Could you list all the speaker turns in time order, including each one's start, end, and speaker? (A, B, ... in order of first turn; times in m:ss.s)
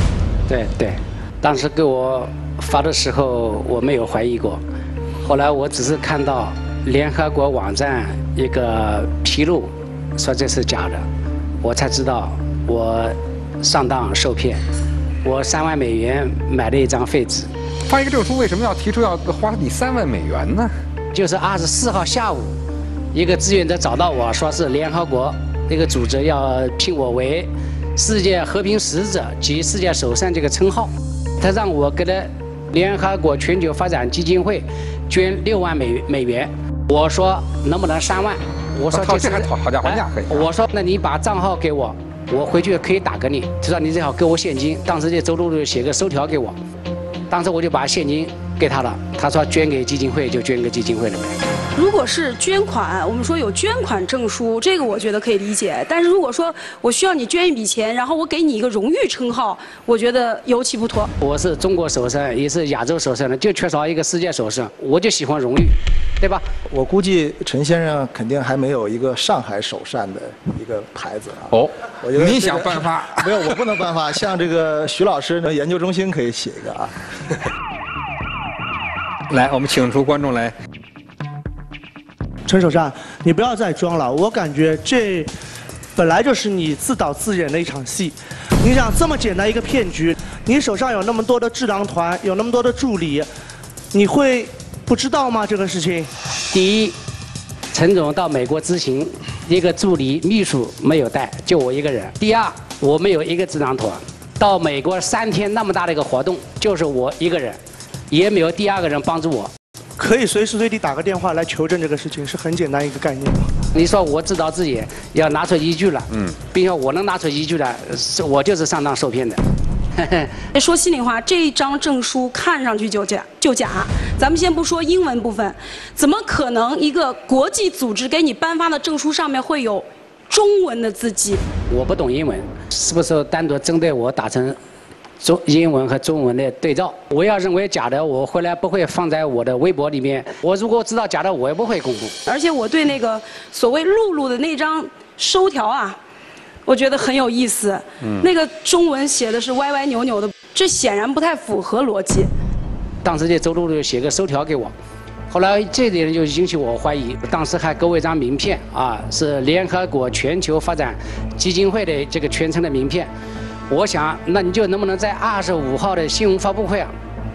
0:00.5-0:04.6 A
0:05.2-0:11.1 A
0:11.6-0:14.6 A
0:15.2-0:17.5 A
0:17.9-0:20.7 B
0:21.1-0:22.6 A
0:23.1-0:46.6 A
0:38.9-0:40.5 B
0:47.3-0:51.4 A
0:51.8-1:01.1 C
1:01.2-1:06.4 A
1:06.7-1:16.9 D
1:11.5-1:13.3 B
1:19.3-1:20.6 B
1:22.5-1:25.3 E
1:26.0-1:33.3 E
1:33.9-1:36.1 E
1:36.5-1:37.0 A
1:37.7-1:47.6 A
1:48.1-1:49.5 A
1:50.0-1:53.5 E
1:53.7-1:59.4 A
1:56.1-1:56.4 B
2:00.0-2:00.3 A
2:00.5-2:11.4 C
2:11.7-2:14.6 A
2:15.2-2:22.2 A
2:22.3-2:26.0 C
2:26.7-2:32.3 C
2:28.0-2:28.3 B
2:33.0-2:34.7 A
2:35.3-2:43.1 A
2:43.7-2:46.9 A